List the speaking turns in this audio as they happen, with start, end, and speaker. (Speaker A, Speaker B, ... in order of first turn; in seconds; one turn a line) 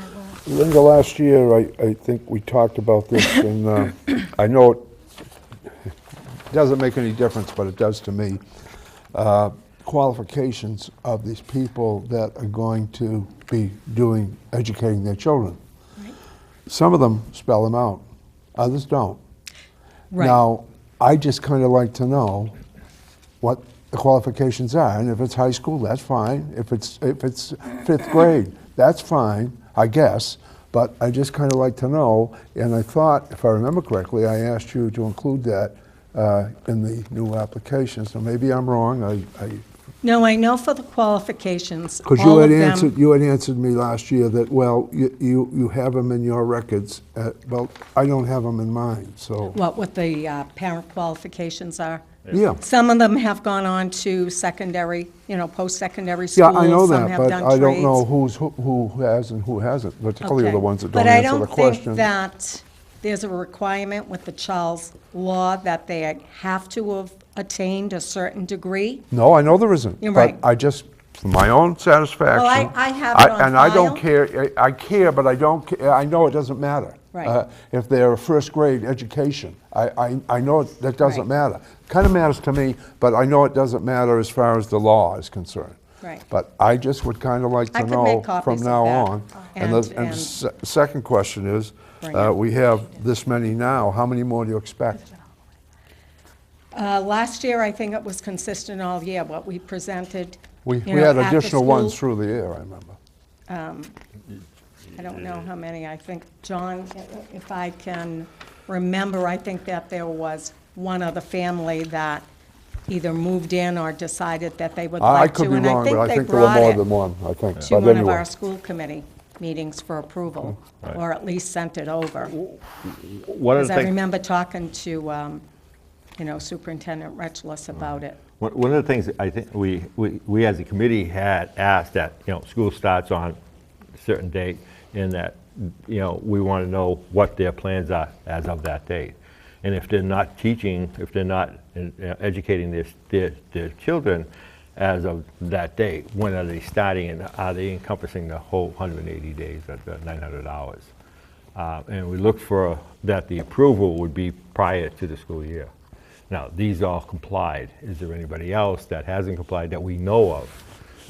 Speaker A: 0.4-4.9
Speaker A: 6.5-8.4
Speaker A: 9.1-15.6
Speaker A: 16.7-18.0
Speaker A: 18.6-19.2
Speaker B: 20.1-20.4
Speaker A: 20.1-22.5
Speaker A: 23.4-39.6
Speaker B: 40.0-42.9
Speaker A: 42.0-49.6
Speaker B: 49.5-58.0
Speaker A: 52.3-52.6
Speaker A: 56.3-62.0
Speaker B: 60.2-69.0
Speaker A: 69.1-85.8
Speaker B: 70.0-70.4
Speaker B: 72.3-74.0
Speaker A: 86.3-95.1
Speaker B: 87.7-90.3
Speaker B: 92.0-92.3
Speaker B: 96.7-102.0
Speaker A: 100.6-103.0
Speaker B: 103.5-103.9
Speaker B: 104.9-112.3
Speaker B: 112.9-116.8
Speaker A: 115.0-118.2
Speaker B: 117.7-122.3
Speaker C: 122.3-124.0
Speaker B: 123.5-125.4
Speaker B: 126.2-128.2
Speaker C: 128.4-133.4
Speaker C: 134.0-150.9
Speaker C: 151.5-155.7
Speaker C: 156.3-160.6